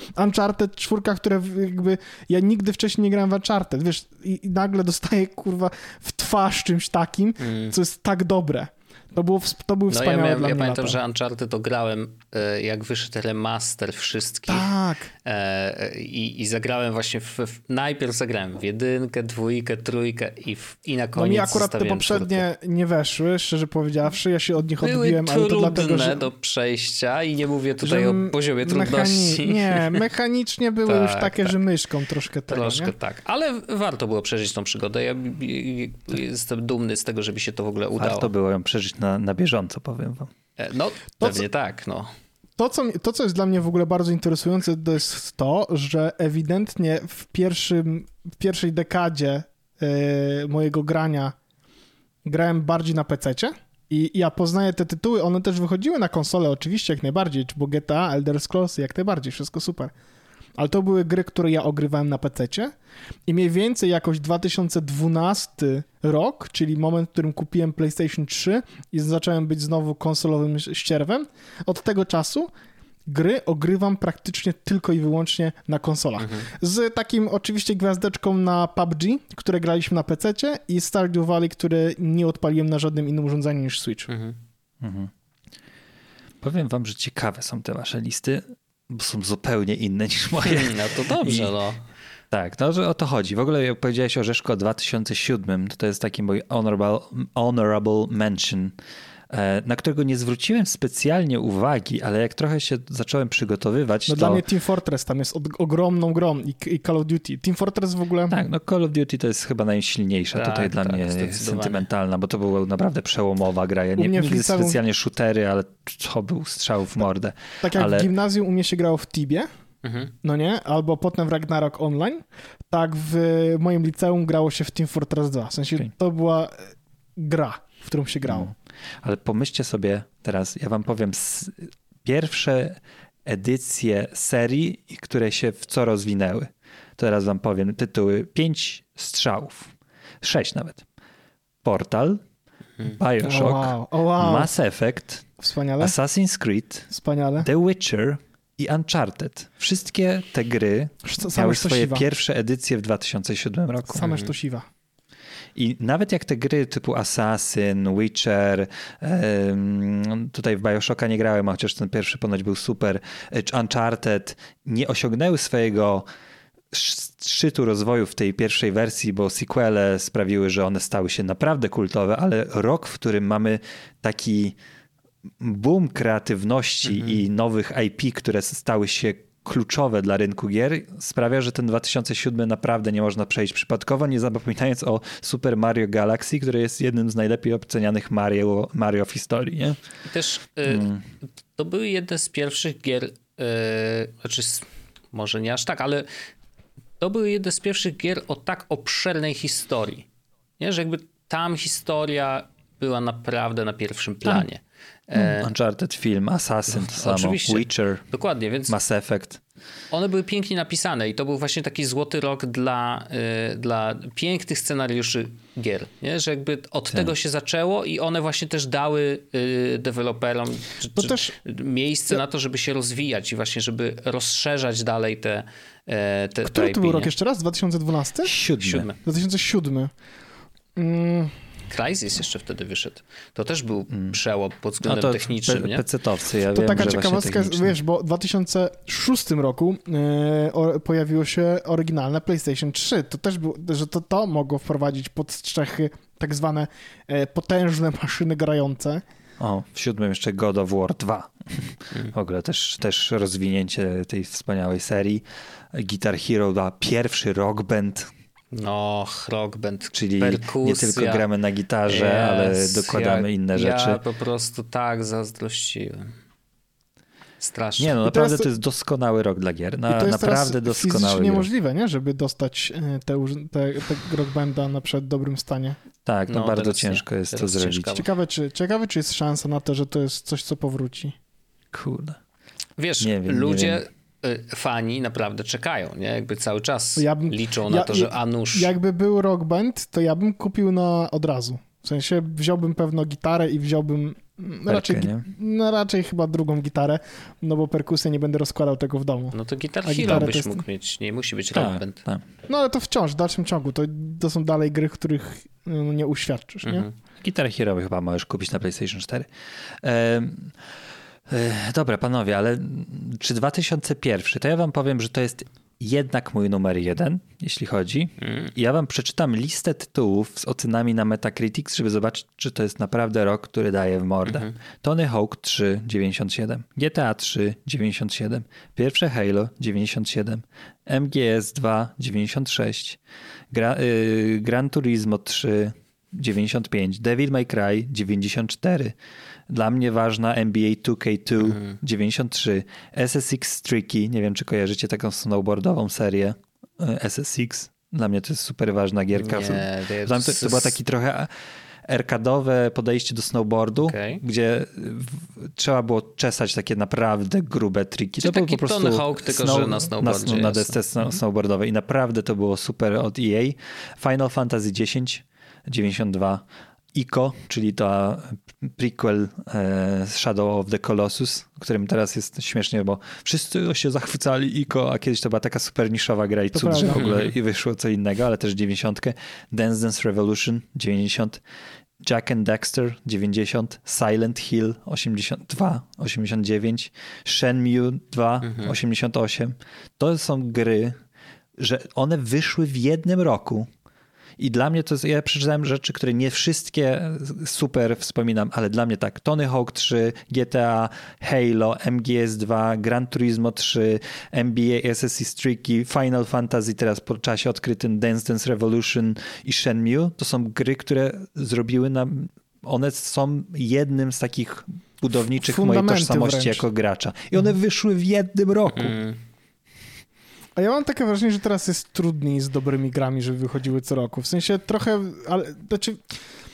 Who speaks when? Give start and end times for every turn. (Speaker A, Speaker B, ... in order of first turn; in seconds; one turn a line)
Speaker A: 0.1-11.0
Speaker B: 7.4-7.7
Speaker B: 9.9-14.7
Speaker A: 14.5-15.1
Speaker B: 15.2-22.4
Speaker A: 21.1-26.2
Speaker B: 24.8-30.0
Speaker A: 27.8-32.9
Speaker B: 30.9-31.6
Speaker B: 32.5-38.3
Speaker C: 38.0-40.3
Speaker B: 40.6-42.1
Speaker A: 42.6-51.4
Speaker A: 52.2-59.9
Speaker A: 60.6-62.7
Speaker A: 63.3-72.5
Speaker A: 73.1-84.1
Speaker B: 76.2-76.5
Speaker B: 84.1-84.4
Speaker C: 84.8-85.1
Speaker C: 86.4-91.5
Speaker B: 90.4-91.8
Speaker C: 92.3-98.7
Speaker C: 99.3-104.4
Speaker A: 104.1-108.4
Speaker C: 108.3-118.1
Speaker B: 110.3-111.8
Speaker A: 114.0-114.8
Speaker A: 117.6-119.5
Speaker B: 119.8-120.1
Speaker A: 120.2-128.5
Speaker C: 128.2-140.8
Speaker C: 141.6-142.2
Speaker C: 142.8-145.3
Speaker A: 143.2-144.5
Speaker A: 145.4-145.9
Speaker C: 145.8-146.9
Speaker A: 146.9-147.5
Speaker C: 147.4-154.1
Speaker A: 151.0-152.0
Speaker A: 153.9-154.7
Speaker B: 154.0-154.3
Speaker C: 155.6-166.1
Speaker C: 166.7-174.6
Speaker C: 175.4-189.8
Speaker B: 176.9-177.2
Speaker B: 190.1-190.9
Speaker C: 190.7-191.0
Speaker B: 191.6-196.1
Speaker B: 197.0-200.1
Speaker B: 200.6-205.5
Speaker C: 205.2-208.1
Speaker B: 206.7-208.8
Speaker C: 208.7-209.4
Speaker B: 209.9-227.1
Speaker A: 220.9-221.3
Speaker A: 226.4-228.3
Speaker C: 228.2-228.9
Speaker B: 228.6-229.0
Speaker A: 229.0-229.9
Speaker A: 230.8-231.3
Speaker B: 231.7-235.8
Speaker C: 233.9-234.2
Speaker C: 234.8-237.7
Speaker A: 236.5-249.0
Speaker C: 249.4-258.1
Speaker B: 258.5-261.2
Speaker C: 259.9-264.0
Speaker B: 261.9-266.1
Speaker B: 267.4-268.0
Speaker C: 267.8-271.5
Speaker A: 268.0-268.5
Speaker A: 269.9-275.8
Speaker C: 276.1-278.0
Speaker B: 276.3-278.1
Speaker A: 277.9-281.1
Speaker C: 281.7-282.2
Speaker B: 282.8-288.7
Speaker C: 283.0-283.8
Speaker A: 287.0-300.6
Speaker C: 294.7-295.3
Speaker B: 299.3-302.0
Speaker C: 301.5-302.2
Speaker A: 302.5-306.9
Speaker B: 306.6-306.9
Speaker C: 307.2-309.3
Speaker C: 309.8-310.5
Speaker C: 311.3-333.0
Speaker B: 318.2-318.5
Speaker B: 324.2-324.5
Speaker C: 333.5-338.9
Speaker C: 339.5-351.3
Speaker B: 341.4-341.8
Speaker B: 349.1-350.8
Speaker C: 351.9-366.4
Speaker B: 353.8-354.2
Speaker B: 358.2-361.2
Speaker C: 366.9-381.4
Speaker A: 376.5-377.1
Speaker B: 376.9-377.3
Speaker C: 382.0-391.0
Speaker B: 388.4-388.7
Speaker C: 391.6-393.7
Speaker C: 394.4-418.9
Speaker A: 415.4-416.6
Speaker B: 418.7-419.2
Speaker A: 420.6-426.1